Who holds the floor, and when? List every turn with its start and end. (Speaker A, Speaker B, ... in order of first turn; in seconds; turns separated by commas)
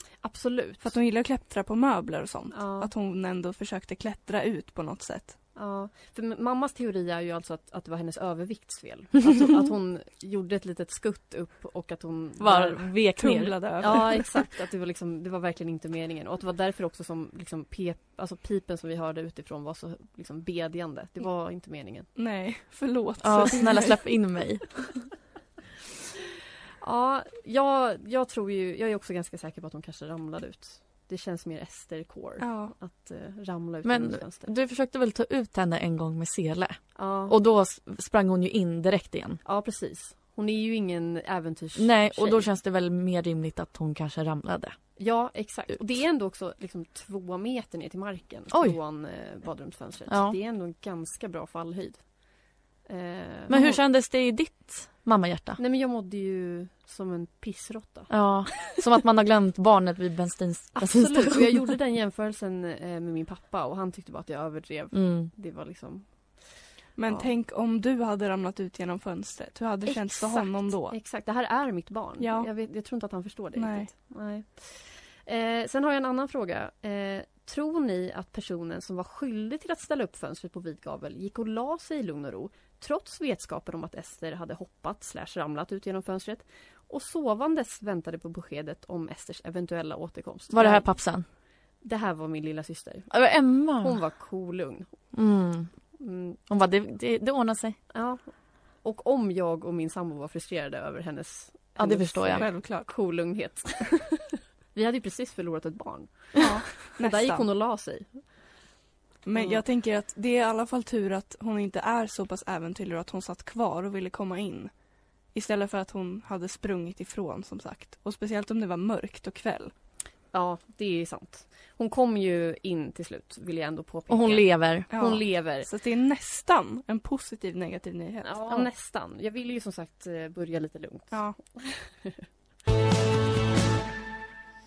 Speaker A: 0.2-0.9, Speaker B: 0.8-5.4, Speaker A: 2.5-2.9, Speaker A: 5.5-12.9, Speaker C: 12.4-14.1, Speaker B: 13.2-14.3, Speaker A: 13.8-22.1, Speaker B: 22.2-24.0, Speaker C: 23.2-25.0, Speaker A: 26.8-34.5, Speaker B: 32.4-32.7, Speaker C: 33.9-39.4, Speaker A: 37.0-37.4, Speaker A: 39.5-42.5, Speaker C: 41.8-44.8, Speaker A: 45.0-52.0, Speaker C: 48.5-48.8, Speaker C: 50.1-50.4, Speaker A: 52.9-53.8, Speaker C: 53.5-55.6, Speaker A: 55.6-58.1, Speaker C: 58.1-61.7, Speaker A: 60.8-66.1, Speaker C: 64.9-65.3, Speaker B: 67.0-71.0, Speaker A: 69.9-90.9, Speaker B: 72.2-72.5, Speaker B: 73.5-73.9, Speaker C: 90.5-91.2, Speaker A: 91.8-93.1, Speaker C: 93.1-94.0, Speaker A: 93.7-94.9, Speaker C: 95.1-95.7, Speaker A: 96.0-96.4, Speaker C: 96.5-97.8, Speaker A: 97.9-108.2, Speaker C: 101.8-102.5, Speaker B: 102.3-102.9, Speaker B: 106.4-107.5, Speaker B: 109.2-114.7, Speaker A: 109.4-109.6, Speaker B: 115.3-119.7, Speaker A: 120.3-125.7, Speaker C: 124.1-124.9, Speaker B: 124.9-128.4, Speaker A: 128.2-132.2, Speaker B: 131.1-131.4